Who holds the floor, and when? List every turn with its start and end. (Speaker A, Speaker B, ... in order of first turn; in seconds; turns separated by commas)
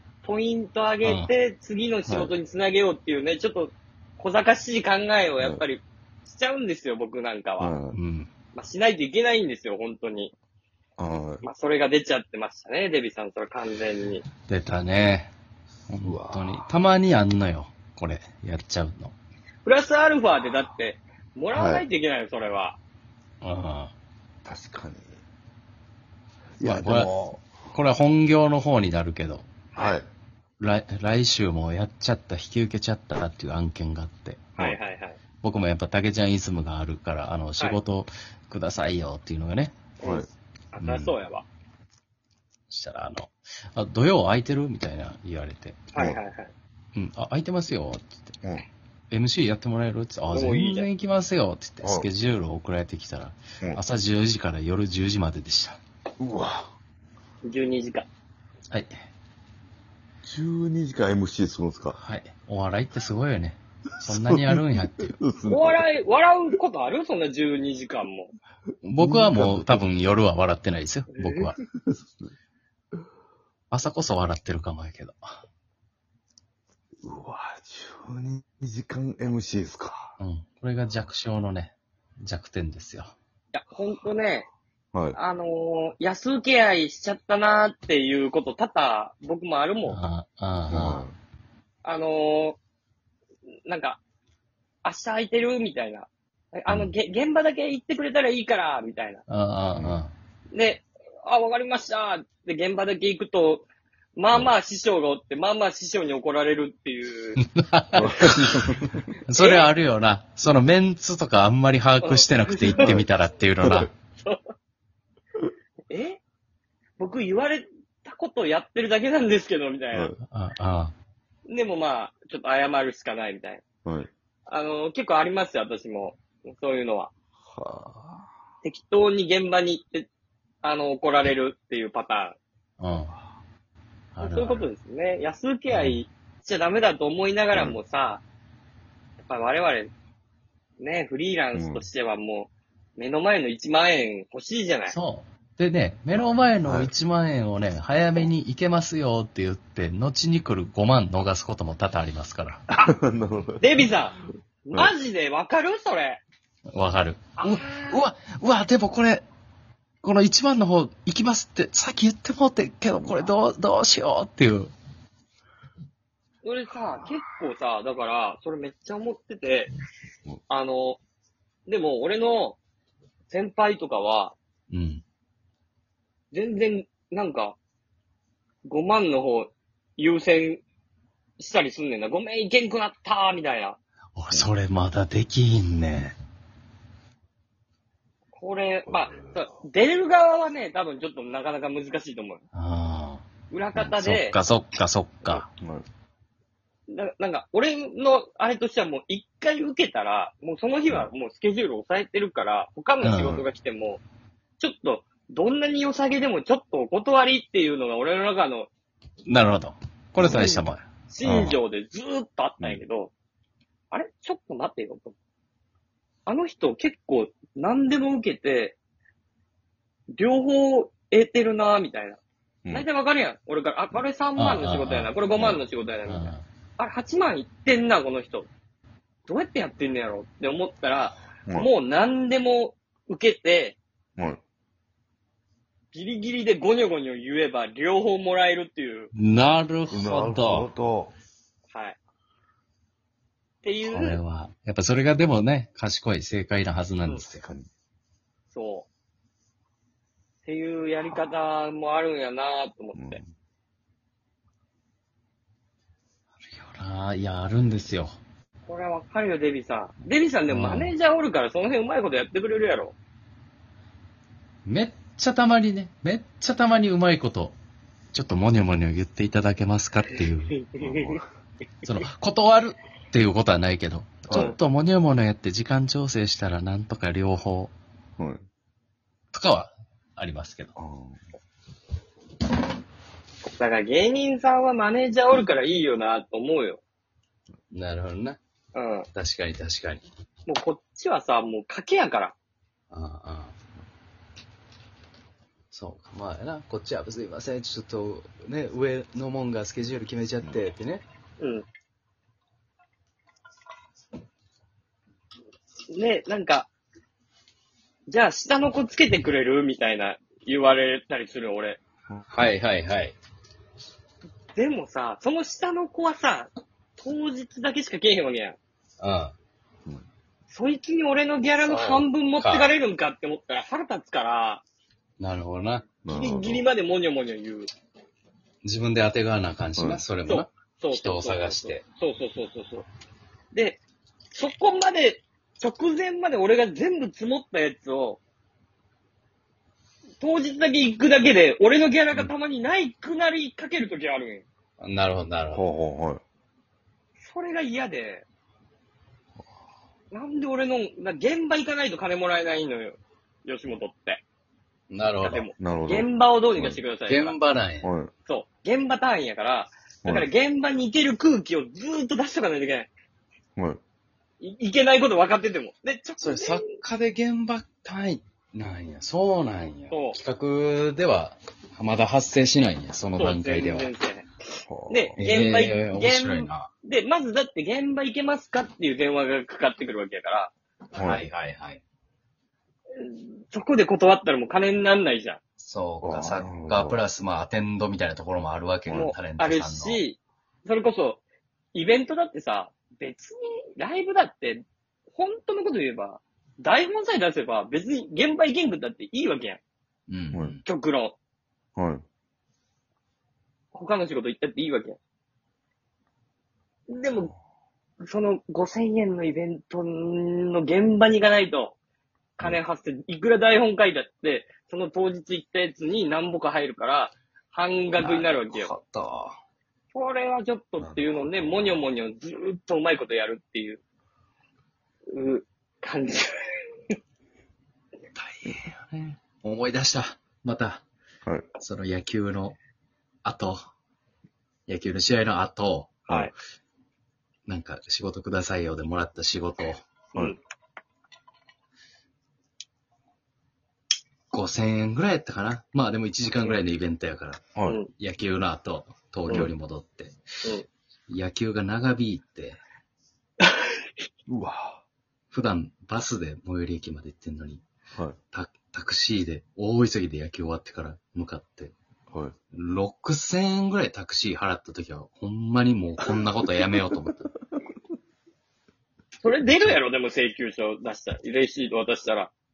Speaker A: 0.2-7.7, Speaker B: 1.0-1.3, Speaker C: 2.1-2.3, Speaker C: 5.4-5.6, Speaker C: 7.6-8.0, Speaker B: 7.9-8.3, Speaker A: 8.6-10.3, Speaker C: 11.0-11.4, Speaker A: 11.4-14.3, Speaker B: 14.5-15.3, Speaker B: 15.9-19.1, Speaker C: 16.0-16.7, Speaker A: 19.6-22.8, Speaker C: 21.5-21.9, Speaker B: 23.4-23.9, Speaker C: 24.4-25.2, Speaker C: 26.6-27.5, Speaker B: 26.6-27.1, Speaker B: 27.7-29.5, Speaker C: 29.8-30.1, Speaker B: 30.6-34.7, Speaker A: 34.6-35.2, Speaker B: 35.4-39.7, Speaker A: 40.0-41.5, Speaker B: 40.8-41.1, Speaker B: 42.7-45.8, Speaker A: 45.9-46.5, Speaker B: 47.0-48.4, Speaker B: 49.1-55.8, Speaker A: 50.3-50.9, Speaker C: 51.8-52.1, Speaker C: 56.2-56.7, Speaker A: 57.4-58.1, Speaker C: 60.2-62.0, Speaker B: 62.0-65.2, Speaker C: 64.1-64.6, Speaker C: 65.2-65.8, Speaker A: 65.5-68.3, Speaker B: 68.8-71.6, Speaker C: 69.0-69.8, Speaker C: 71.7-72.3, Speaker B: 73.7-75.4, Speaker C: 77.0-80.2, Speaker B: 80.2-83.1, Speaker A: 83.5-84.5, Speaker C: 84.9-85.2, Speaker A: 85.1-90.0, Speaker B: 89.9-91.1, Speaker C: 90.7-91.2, Speaker A: 91.8-92.6, Speaker A: 93.7-94.0, Speaker A: 94.8-99.2, Speaker B: 99.3-100.1, Speaker C: 99.8-100.0, Speaker A: 100.5-107.4, Speaker B: 107.6-108.6, Speaker C: 108.0-109.0, Speaker B: 109.3-113.9, Speaker A: 109.4-109.7, Speaker A: 112.0-112.9, Speaker C: 112.8-113.1, Speaker A: 115.9-116.2, Speaker A: 117.0-120.1, Speaker C: 119.9-120.2, Speaker B: 120.3-120.9, Speaker A: 121.5-123.6, Speaker C: 123.8-124.1, Speaker A: 124.5-127.1, Speaker C: 127.4-128.3, Speaker A: 128.6-130.1, Speaker A: 130.6-132.4, Speaker B: 132.8-133.1, Speaker B: 134.2-134.7, Speaker A: 134.2-138.2, Speaker B: 135.7-136.0, Speaker C: 137.5-137.8, Speaker A: 139.2-139.9, Speaker A: 140.8-144.9, Speaker C: 141.5-141.9, Speaker B: 144.9-152.6, Speaker C: 146.2-146.9, Speaker C: 152.7-153.8, Speaker A: 153.6-156.2, Speaker B: 156.7-159.2, Speaker A: 157.4-158.0, Speaker B: 160.0-164.7, Speaker A: 166.4-169.7, Speaker C: 166.8-167.2, Speaker A: 170.5-171.0, Speaker A: 171.7-172.6, Speaker A: 173.3-174.4, Speaker B: 174.7-175.0, Speaker A: 176.3-177.6, Speaker A: 178.6-180.6, Speaker A: 181.4-183.8, Speaker B: 184.2-186.2, Speaker A: 188.3-192.4, Speaker C: 188.9-189.4, Speaker B: 192.5-193.2, Speaker A: 193.5-194.3, Speaker B: 193.8-195.5, Speaker C: 195.6-195.9, Speaker A: 196.9-204.0, Speaker B: 203.0-203.4, Speaker A: 204.6-208.7, Speaker B: 209.3-211.6, Speaker C: 210.2-210.6, Speaker A: 210.3-210.6, Speaker A: 211.1-213.1, Speaker A: 213.9-215.2, Speaker A: 216.3-218.8, Speaker A: 220.1-228.5, Speaker B: 224.4-225.1, Speaker C: 225.3-225.6, Speaker B: 226.1-226.4, Speaker A: 229.3-233.8, Speaker C: 231.5-231.7, Speaker A: 235.9-239.1, Speaker B: 239.1-240.7, Speaker C: 239.9-241.1, Speaker A: 241.7-242.0, Speaker A: 243.6-244.2, Speaker B: 243.8-247.4, Speaker C: 247.3-247.7, Speaker A: 248.5-248.9, Speaker A: 250.4-253.2, Speaker C: 252.9-253.3, Speaker B: 256.4-258.2, Speaker A: 258.7-263.0, Speaker B: 260.5-260.9, Speaker B: 264.7-267.6, Speaker B: 268.1-270.6, Speaker A: 270.6-271.2, Speaker C: 270.8-271.2, Speaker B: 271.8-277.7, Speaker C: 274.3-274.6, Speaker C: 278.2-278.4, Speaker B: 279.3-280.7, Speaker C: 280.8-281.2, Speaker A: 283.4-286.8, Speaker B: 287.7-288.4, Speaker A: 288.7-289.1, Speaker B: 289.1-290.0, Speaker A: 290.5-292.4, Speaker B: 292.9-293.5, Speaker B: 295.7-301.0, Speaker A: 301.4-301.7, Speaker A: 305.9-306.7, Speaker A: 308.1-311.8, Speaker B: 312.3-313.1, Speaker A: 314.6-318.6, Speaker B: 319.0-319.3, Speaker A: 320.5-324.6, Speaker B: 321.6-322.7, Speaker B: 325.2-325.9, Speaker C: 326.0-326.7, Speaker A: 326.1-327.7, Speaker B: 328.6-331.8, Speaker C: 329.8-330.0, Speaker A: 330.3-332.9, Speaker A: 333.5-333.8, Speaker A: 334.3-338.2, Speaker A: 340.2-344.4, Speaker B: 344.8-345.6, Speaker C: 345.5-346.2, Speaker A: 347.2-348.2, Speaker A: 350.1-354.2, Speaker B: 354.9-355.5, Speaker A: 355.2-357.4, Speaker C: 355.6-356.8, Speaker B: 357.1-357.9, Speaker C: 357.8-358.1, Speaker A: 358.3-362.9, Speaker C: 360.0-360.3, Speaker A: 364.4-366.8, Speaker B: 366.2-373.9, Speaker A: 369.9-370.2, Speaker A: 373.2-380.5, Speaker C: 374.7-375.2, Speaker B: 375.2-376.7, Speaker C: 380.9-381.2, Speaker B: 380.9-381.8, Speaker A: 382.9-385.4, Speaker B: 385.6-390.0, Speaker C: 386.0-387.0, Speaker C: 388.9-389.1, Speaker A: 388.9-391.2, Speaker A: 391.7-399.6, Speaker B: 400.1-400.6, Speaker C: 400.3-400.6, Speaker A: 400.6-401.1, Speaker C: 401.8-402.0, Speaker A: 403.7-405.0, Speaker A: 406.9-407.3, Speaker A: 408.0-411.8, Speaker A: 412.4-418.7, Speaker B: 418.0-419.4, Speaker A: 419.9-423.8, Speaker C: 420.8-421.9, Speaker A: 425.1-426.4, Speaker B: 428.1-430.8, Speaker B: 431.6-432.6, Speaker B: 433.2-433.6, Speaker B: 434.7-436.3, Speaker B: 437.5-439.8, Speaker B: 444.3-447.4, Speaker A: 447.6-447.9, Speaker B: 448.0-450.1, Speaker B: 451.1-452.6, Speaker C: 454.3-454.8, Speaker B: 455.3-457.6, Speaker C: 457.9-458.2, Speaker B: 458.3-461.7, Speaker B: 462.5-467.3, Speaker A: 469.2-472.3, Speaker B: 469.4-469.8